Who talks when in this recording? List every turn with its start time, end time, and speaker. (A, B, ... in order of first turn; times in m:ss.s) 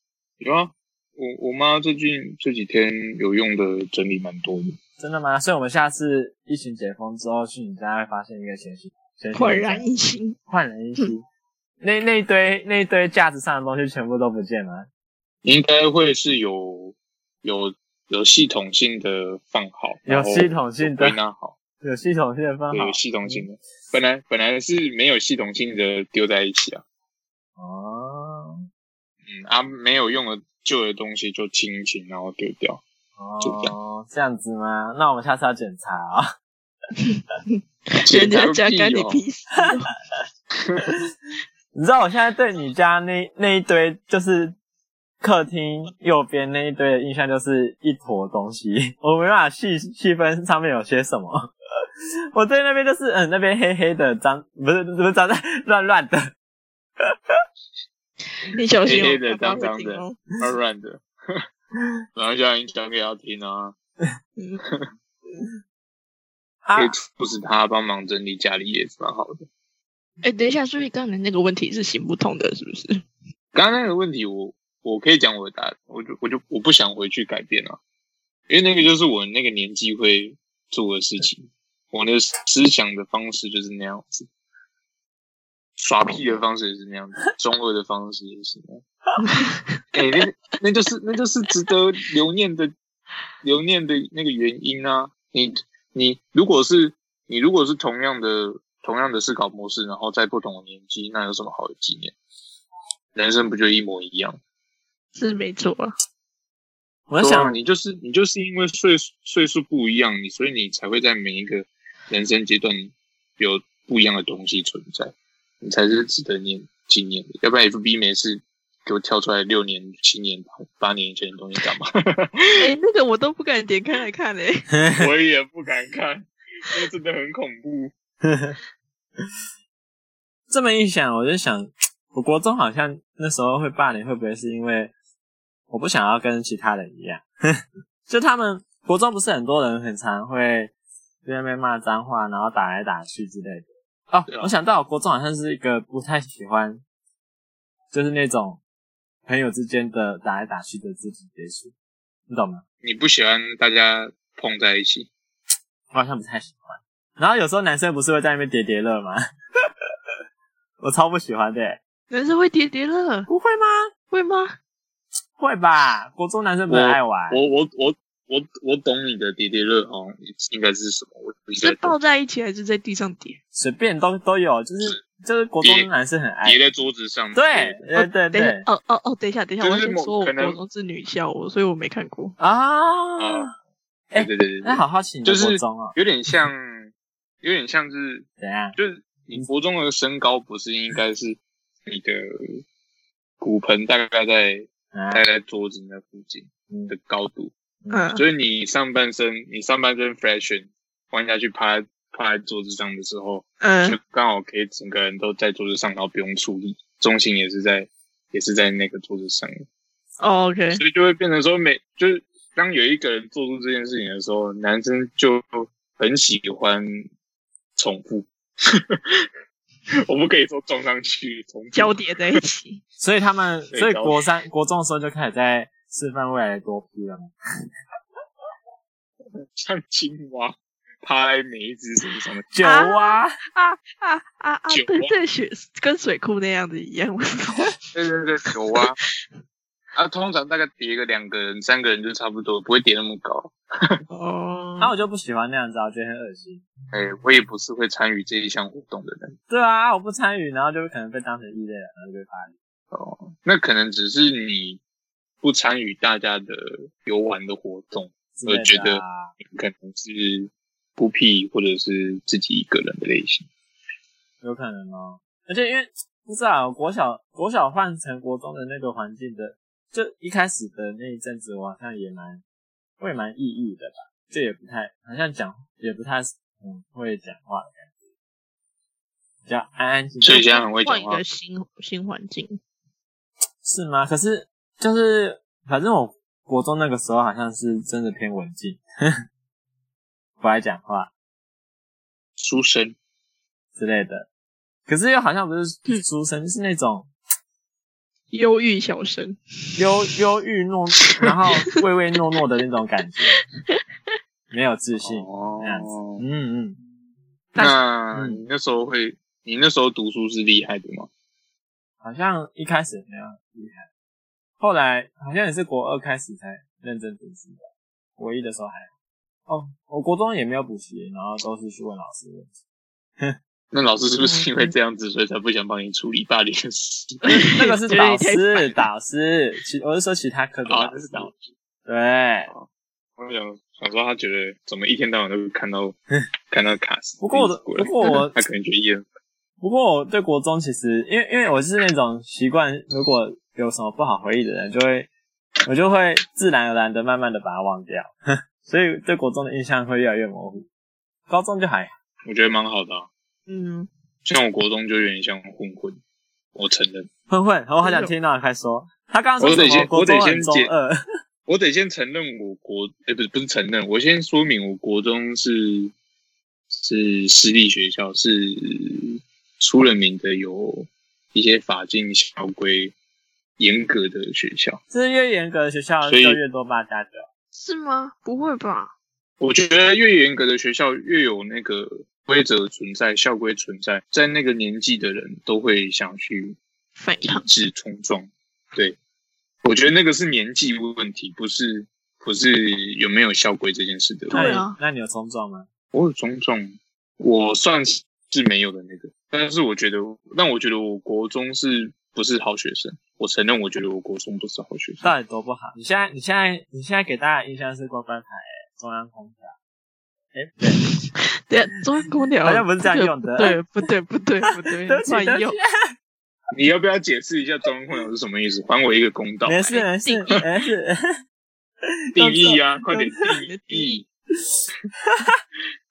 0:00.4-0:04.8 A
0:05.0-0:09.8 B
0:09.4-0:10.4 C
0:10.5-0:11.2 B
0:11.8-0:14.9 B
0:15.4-0:21.6 A
0:20.1-0:21.2 B
0:21.8-0:23.5 B
0:22.7-0:26.8 A
0:27.6-0:28.6 B
0:29.3-0:32.8 A
0:33.2-0:36.3 B
0:33.4-0:33.7 A
0:37.0-0:39.9 C
0:38.0-0:39.2 A
0:40.5-0:40.8 A
0:41.7-0:44.6 B
0:45.2-0:51.5 B
0:52.3-0:56.3 B
0:57.0-0:57.4 B
0:58.4-1:00.2 C
0:58.9-1:01.4 A
1:02.2-1:03.8 A
1:06.6-1:06.9 B
1:06.8-1:09.5 A
1:10.2-1:13.0 C
1:13.5-1:17.8 A
1:18.5-1:24.3 A
1:25.8-1:28.8 A
1:29.2-1:29.8 C
1:29.9-1:32.7 A
1:33.4-1:42.2 A
1:43.1-1:44.4 A
1:45.2-1:45.9 C
1:47.1-1:47.6 B
1:47.2-2:02.7 A
2:02.6-2:04.7 C
2:04.7-2:05.1 B
2:05.0-2:07.9 A
2:08.2-2:08.6 B
2:10.5-2:14.9 B
2:15.7-2:20.7 B
2:21.2-2:26.8 B
2:24.3-2:24.5 A
2:27.9-2:28.6 B
2:29.3-2:31.7 B
2:32.3-2:32.6 B
2:32.8-2:35.1 A
2:35.9-2:39.2 B
2:40.8-2:41.8 B
2:42.1-2:43.3 C
2:43.3-2:43.9 B
2:44.1-2:44.6 C
2:45.4-2:47.4 B
2:46.7-2:52.0 A
2:51.6-2:53.4 C
2:53.6-2:56.6 B
2:55.6-2:55.9 A
2:56.4-2:57.8 A
2:57.4-2:58.6 B
2:58.0-3:02.4 C
2:59.6-3:00.6 A
3:02.4-3:03.5 B
3:03.2-3:03.5 A
3:04.1-3:06.0 B
3:04.1-3:12.6 A
3:08.4-3:08.8 B
3:13.4-3:17.5 A
3:14.9-3:15.2 B
3:17.9-3:18.2 C
3:18.1-3:29.5 A
3:23.6-3:24.0 C
3:30.2-3:30.8 C
3:30.7-3:37.1 A
3:37.8-3:39.3 A
3:40.1-3:42.0 A
3:41.7-3:42.8 C
3:43.0-3:47.3 B
3:43.7-3:44.2 A
3:49.4-3:52.5 A
3:52.5-3:53.4 B
3:52.6-3:57.8 C
3:54.7-3:55.1 A
3:57.9-3:59.0 A
4:00.0-4:04.0 A
4:04.1-4:04.9 C
4:04.8-4:06.6 B
4:06.9-4:09.4 A
4:09.5-4:12.5 B
4:12.9-4:14.8 A
4:15.4-4:23.5 A
4:18.4-4:19.3 B
4:24.4-4:32.4 B
4:33.0-4:37.9 B
4:39.5-4:40.4 B
4:40.2-4:41.2 A
4:40.3-4:42.6 C
4:43.6-4:49.1 B
4:50.4-4:51.1 B
4:52.4-4:53.0 A
4:53.8-4:54.3 B
4:54.9-4:57.1 B
4:58.3-4:59.8 C
4:59.8-5:03.4 B
5:01.1-5:01.6 C
5:04.5-5:06.8 B
5:05.0-5:06.2 A
5:07.6-5:11.1 A
5:08.1-5:08.4 B
5:12.0-5:13.8 B
5:14.6-5:18.9 B
5:19.5-5:22.5 B
5:23.7-5:27.3 A
5:27.2-5:28.8 C
5:27.3-5:31.3 B
5:30.7-5:31.5 A
5:31.9-5:32.5 B
5:32.5-5:36.0 A
5:36.5-5:39.0 A
5:37.2-5:38.4 B
5:39.6-5:45.1 B
5:45.7-5:50.7 B
5:51.3-5:51.9 B
5:52.3-5:53.1 A
5:53.5-5:53.9 C
5:54.2-5:56.0 A
5:56.5-5:57.1 A
5:57.3-6:01.0 B
5:57.8-5:58.1 C
5:59.4-6:00.7 A
6:01.5-6:05.9 A
6:06.7-6:12.9 A
6:13.6-6:14.8 A
6:14.9-6:17.3 B
6:16.0-6:16.4 A
6:17.5-6:18.9 C
6:19.4-6:26.6 A
6:27.0-6:27.5 C
6:27.2-6:29.0 A
6:29.6-6:34.6 A
6:34.3-6:34.8 C
6:34.3-6:35.7 B
6:35.9-6:45.1 A
6:45.0-6:49.6 B
6:50.3-6:50.9 B
6:50.8-6:55.6 C
6:52.4-6:53.6 B
6:54.6-6:55.7 B
6:56.5-6:59.7 A
6:59.5-7:01.0 B
6:59.6-7:00.4 C
7:02.1-7:03.1 B
7:02.2-7:04.0 A
7:03.2-7:04.0 C
7:05.0-7:05.4 B